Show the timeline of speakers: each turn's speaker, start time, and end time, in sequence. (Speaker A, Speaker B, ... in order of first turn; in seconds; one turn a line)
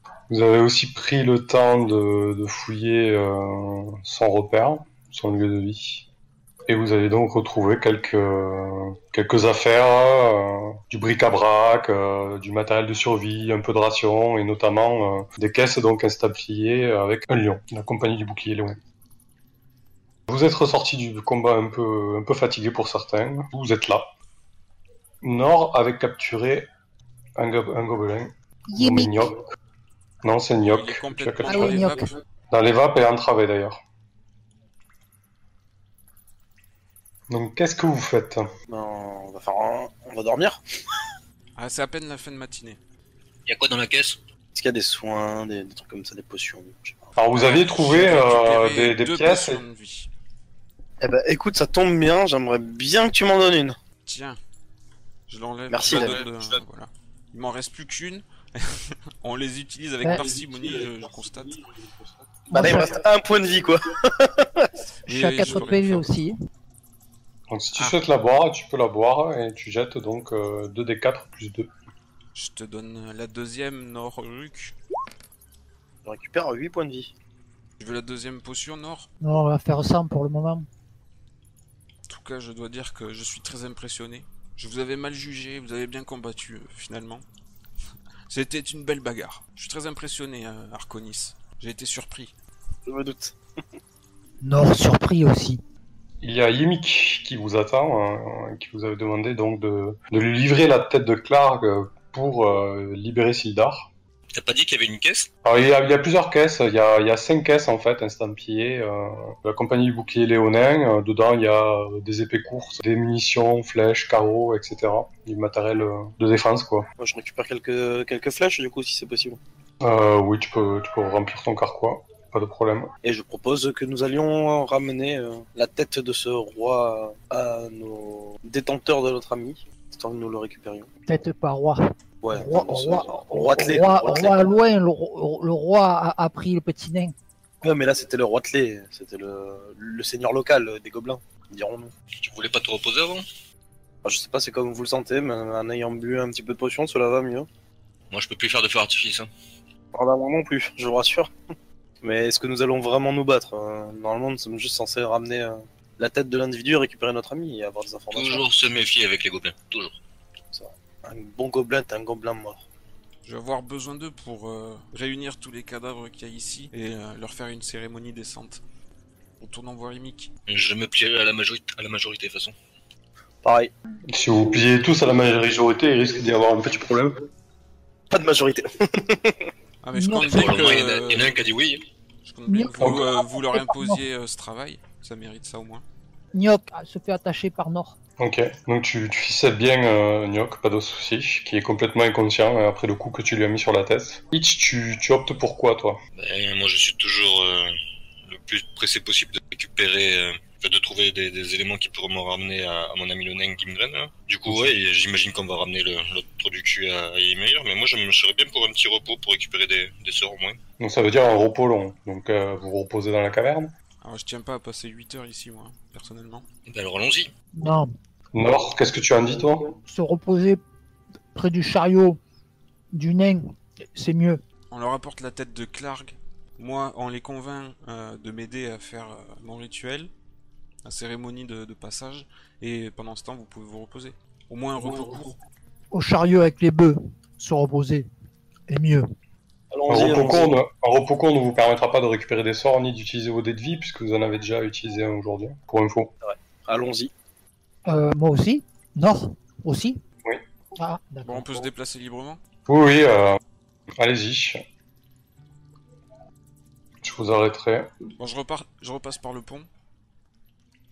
Speaker A: 0.3-6.0
Speaker A: 6.7-18.8
Speaker A: 20.3-24.1
Speaker A: 25.2-26.7
Speaker A: 27.4-29.5
Speaker B: 28.7-29.2
Speaker A: 30.2-32.0
Speaker C: 30.6-32.1
Speaker B: 31.5-32.1
Speaker A: 32.5-33.8
Speaker A: 37.3-38.5
Speaker D: 38.7-40.6
Speaker C: 41.6-42.8
Speaker E: 43.5-44.2
Speaker D: 44.5-47.1
Speaker A: 47.2-49.6
Speaker C: 47.4-50.1
Speaker D: 51.0-53.8
Speaker C: 54.1-54.4
Speaker C: 55.3-61.6
Speaker D: 55.7-56.2
Speaker D: 62.5-64.7
Speaker B: 62.5-63.0
Speaker C: 65.1-66.1
Speaker B: 65.1-66.4
Speaker A: 67.5-71.7
Speaker C: 72.3-74.7
Speaker D: 76.0-77.1
Speaker C: 77.8-79.1
Speaker B: 79.2-80.7
Speaker C: 82.1-87.2
Speaker C: 88.3-92.3
Speaker D: 92.9-93.3
Speaker B: 94.4-95.6
Speaker A: 96.2-103.9
Speaker E: 104.3-105.3
Speaker A: 105.4-116.9
Speaker D: 117.0-119.4
Speaker A: 119.8-122.9
Speaker D: 123.0-130.9
Speaker B: 131.1-131.8
Speaker D: 132.2-134.4
Speaker B: 132.3-137.2
Speaker D: 137.6-141.9
Speaker E: 142.2-143.3
Speaker D: 144.0-147.5
Speaker E: 148.1-149.3
Speaker D: 149.9-151.3
Speaker D: 152.0-158.5
Speaker E: 158.1-160.0
Speaker D: 160.5-162.6
Speaker C: 163.2-168.6
Speaker C: 169.4-170.3
Speaker E: 170.5-172.5
Speaker D: 173.4-173.7
Speaker A: 174.1-177.2
Speaker D: 178.1-179.4
Speaker C: 179.8-181.4
Speaker B: 179.9-180.7
Speaker E: 180.2-181.8
Speaker C: 182.2-185.8
Speaker B: 182.5-184.0
Speaker A: 182.8-183.1
Speaker B: 186.3-188.0
Speaker A: 188.2-196.0
Speaker E: 196.2-197.8
Speaker E: 198.3-210.6
Speaker A: 210.8-213.7
Speaker C: 214.0-216.5
Speaker E: 216.7-217.3
Speaker B: 217.6-217.9
Speaker A: 218.3-219.7
Speaker B: 219.8-220.6
Speaker B: 221.3-222.2
Speaker B: 222.9-224.4
Speaker C: 224.7-230.1
Speaker C: 230.8-235.4
Speaker B: 235.9-238.1
Speaker B: 238.7-239.1
Speaker D: 239.7-240.6
Speaker A: 239.9-246.1
Speaker D: 246.2-247.1
Speaker B: 247.9-250.0
Speaker B: 250.8-251.6
Speaker C: 251.3-252.4
Speaker A: 252.7-253.4
Speaker A: 254.0-254.6
Speaker A: 257.0-257.9
Speaker C: 258.2-259.7